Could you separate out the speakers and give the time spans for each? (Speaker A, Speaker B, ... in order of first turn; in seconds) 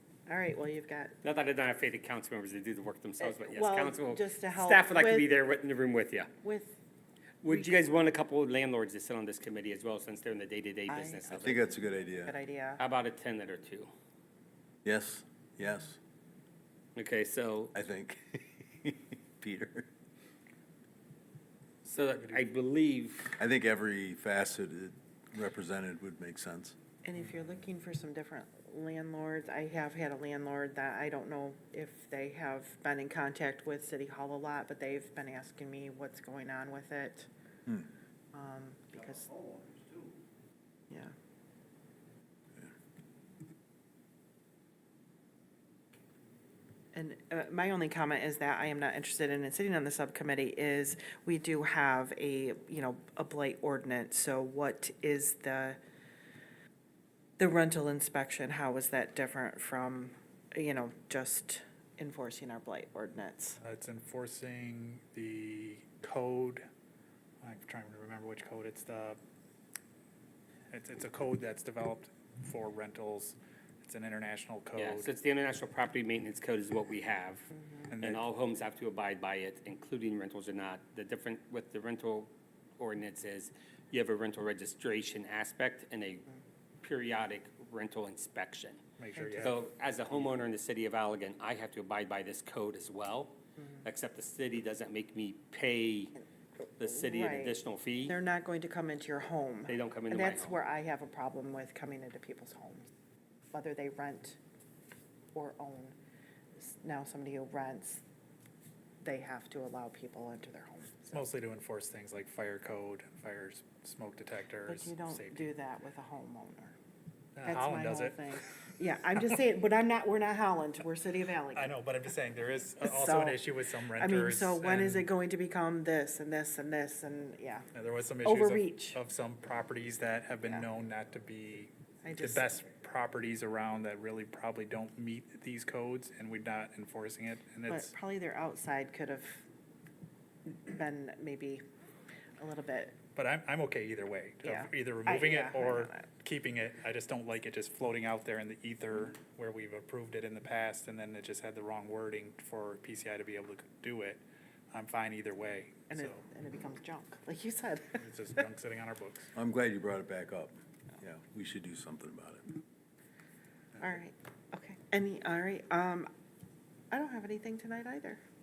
Speaker A: 0.3-1.1, 3.2-5.3, 6.4-6.8, 7.5-7.9, 10.9-12.8, 27.1-37.3, 38.3-39.5, 46.9-55.8, 57.4-63.6, 89.2-89.5, 96.8-102.9, 103.5-104.4, 105.3-106.0, 106.6-108.0, 109.0-111.2, 114.7-116.8, 117.5-121.7, 122.8-127.7, 128.2-129.0, 132.0-132.5, 137.7-139.4, 140.5-141.6, 142.4-143.0, 144.4-146.1, 155.9-158.0, 163.8-166.1, 166.9-168.2
Speaker B: 1.2-6.3, 7.4-11.6, 12.8-13.9, 16.9-17.7, 21.9-23.4, 74.8-86.3, 86.8-88.8, 89.4-96.1, 96.8-98.2, 99.7-100.6
Speaker C: 11.3-12.3, 14.8-16.0, 17.7-19.9, 23.4-26.8, 159.4-162.4
Speaker D: 63.6-66.6, 67.4-69.2, 70.7-75.1, 77.9-78.2, 89.0-89.6, 111.1-115.5, 117.4-118.4, 121.5-125.1, 127.7-137.9, 143.2-154.2, 154.7-156.2, 158.0-159.3